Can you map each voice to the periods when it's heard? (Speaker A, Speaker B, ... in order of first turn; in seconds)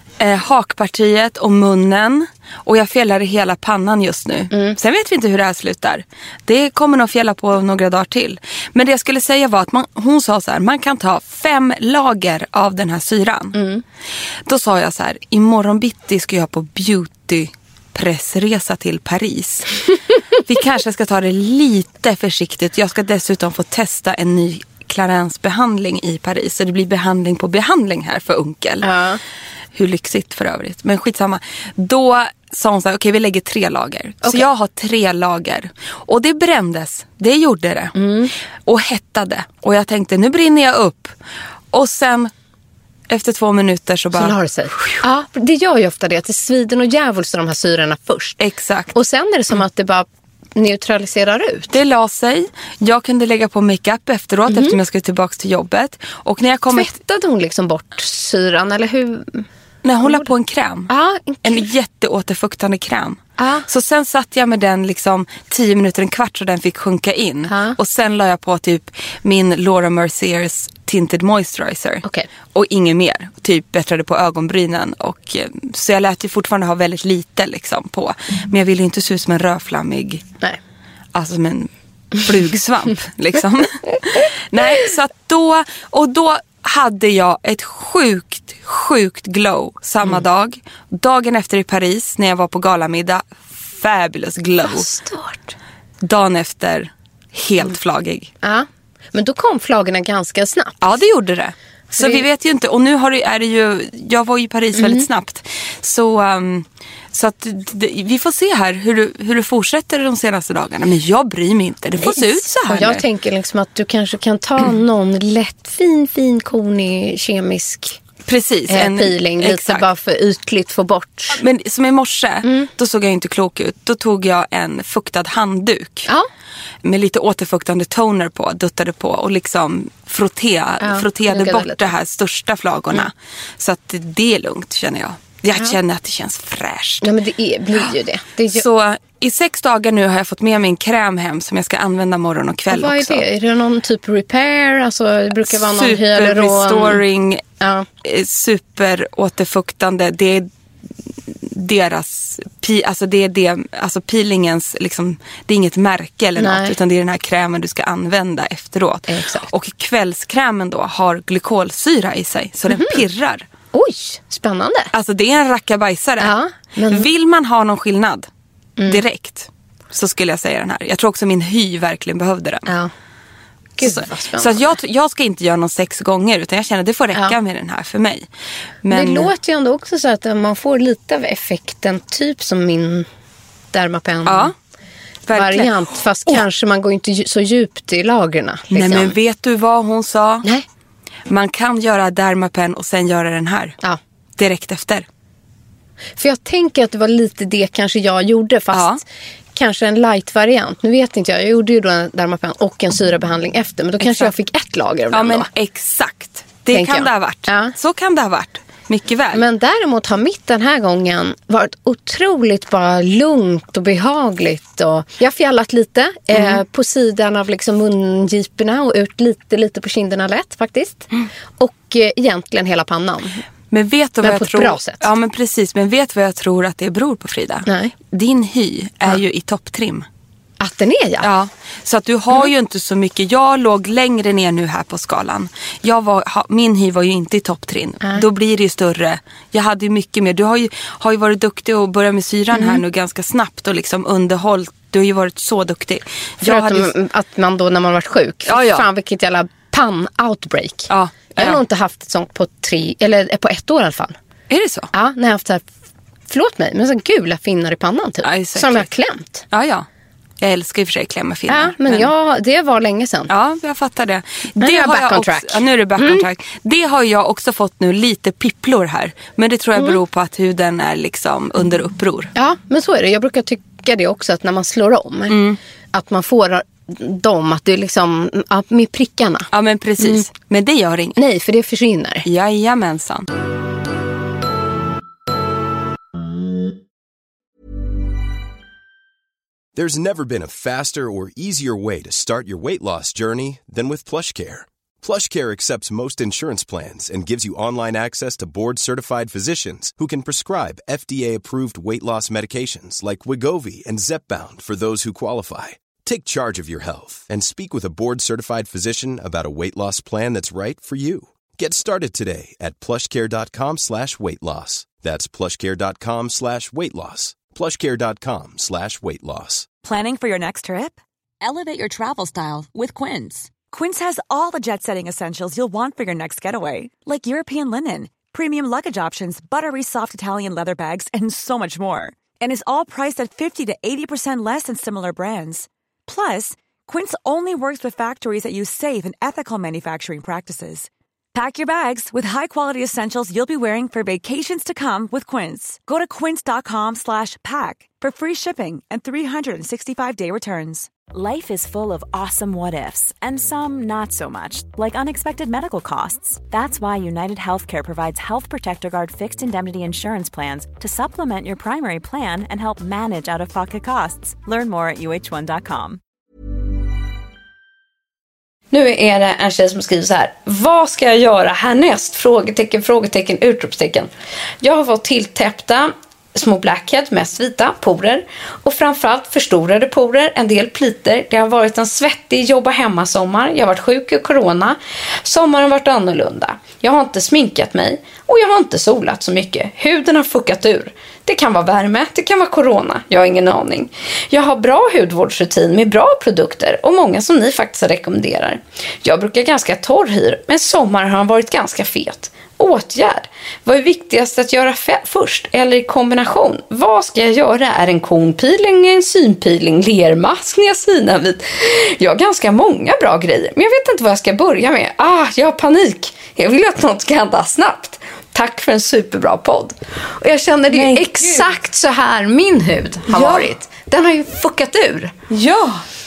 Speaker A: 0.2-13.6, 14.5-19.8, 20.5-28.9, 29.7-38.0, 38.7-41.2, 41.7-42.3, 43.1-45.0, 48.4-48.9, 51.7-56.9, 59.8-60.9, 61.4-80.2, 81.1-94.9, 96.0-98.3, 100.8-113.0, 118.3-119.8, 121.3-126.1, 126.8-137.1, 138.5-143.2, 145.5-147.4, 148.0-150.5, 151.3-163.5, 164.9-166.4, 166.9-168.3, 168.8-172.7, 173.8-178.3, 178.8-179.3, 184.2-184.5, 185.3-186.4, 188.7-190.4, 191.3-193.8, 194.4-195.1, 198.7-199.0, 204.0-204.3, 205.1-209.4, 216.3-216.6, 223.7-230.1, 231.2-246.9, 248.5-248.8, 250.9-251.6, 254.5-254.9, 258.2-258.9, 259.5-259.9, 260.4-262.1, 263.3-272.3, 275.3-275.6, 279.5-281.2, 282.2-283.3, 420.7-421.5, 423.1-423.5, 425.3-425.8
Speaker B: 4.5-4.8, 13.5-13.8, 28.8-29.2, 38.0-38.3, 44.1-48.4, 48.9-51.7, 54.5-54.8, 56.7-59.5, 60.9-61.7, 63.4-63.6, 67.5-67.8, 94.6-95.5, 98.4-100.8, 101.9-102.2, 104.8-105.1, 112.0-118.0, 118.7-121.4, 122.4-122.7, 130.8-131.9, 137.0-138.6, 142.7-147.0, 147.6-147.9, 156.4-156.8, 159.1-159.5, 162.7-163.0, 163.7-164.9, 166.2-167.1, 173.8-174.8, 178.9-183.1, 183.7-184.5, 185.3-189.2, 196.2-199.0, 199.6-205.5, 206.7-207.7, 209.3-223.4, 224.2-225.1, 227.7-227.9, 230.6-231.3, 242.5-242.8, 246.4-254.2, 254.9-255.7, 256.3-259.4, 261.5-263.3, 264.6-266.2, 272.4-275.4, 275.9-279.5, 280.0-280.3, 281.2-282.3, 368.7-374.1, 374.6-425.1
Speaker C: 289.8-319.7
Speaker D: 319.8-350.9
Speaker E: 351.1-366.0